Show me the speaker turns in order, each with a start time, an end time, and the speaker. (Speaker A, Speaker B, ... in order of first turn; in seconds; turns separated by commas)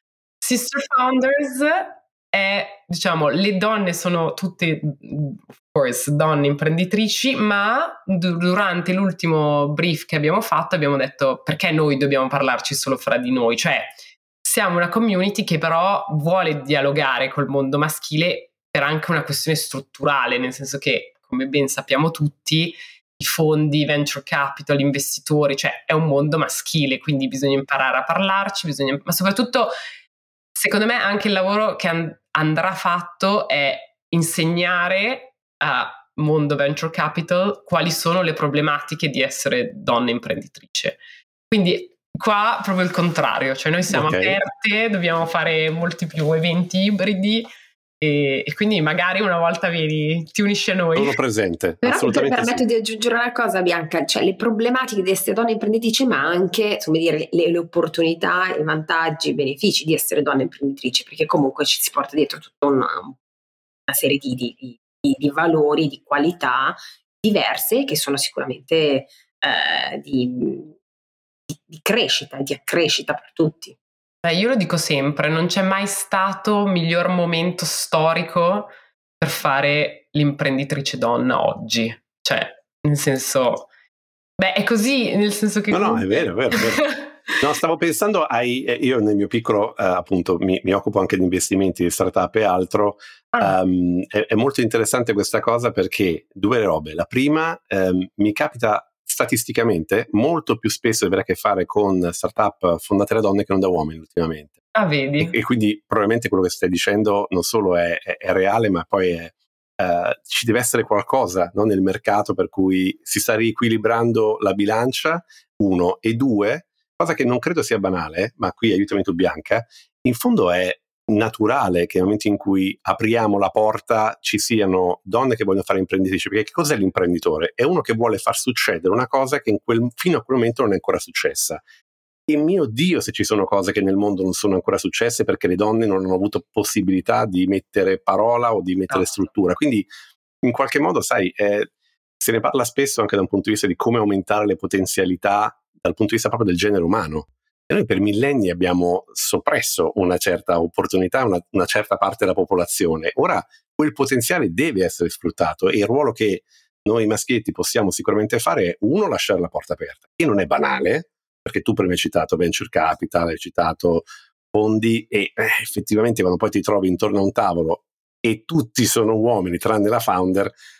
Speaker A: 0.4-29.7, Speaker A: 30.5-41.0, Speaker A: 41.5-47.5, Speaker B: 43.9-44.4, Speaker A: 48.0-51.2, Speaker B: 50.9-52.6, Speaker C: 51.8-63.1, Speaker C: 63.9-70.7, Speaker C: 71.5-73.7, Speaker A: 74.2-83.7, Speaker A: 84.4-87.1, Speaker B: 85.7-104.6, Speaker A: 104.7-105.3, Speaker B: 105.2-131.6, Speaker B: 132.3-139.9, Speaker B: 140.4-170.5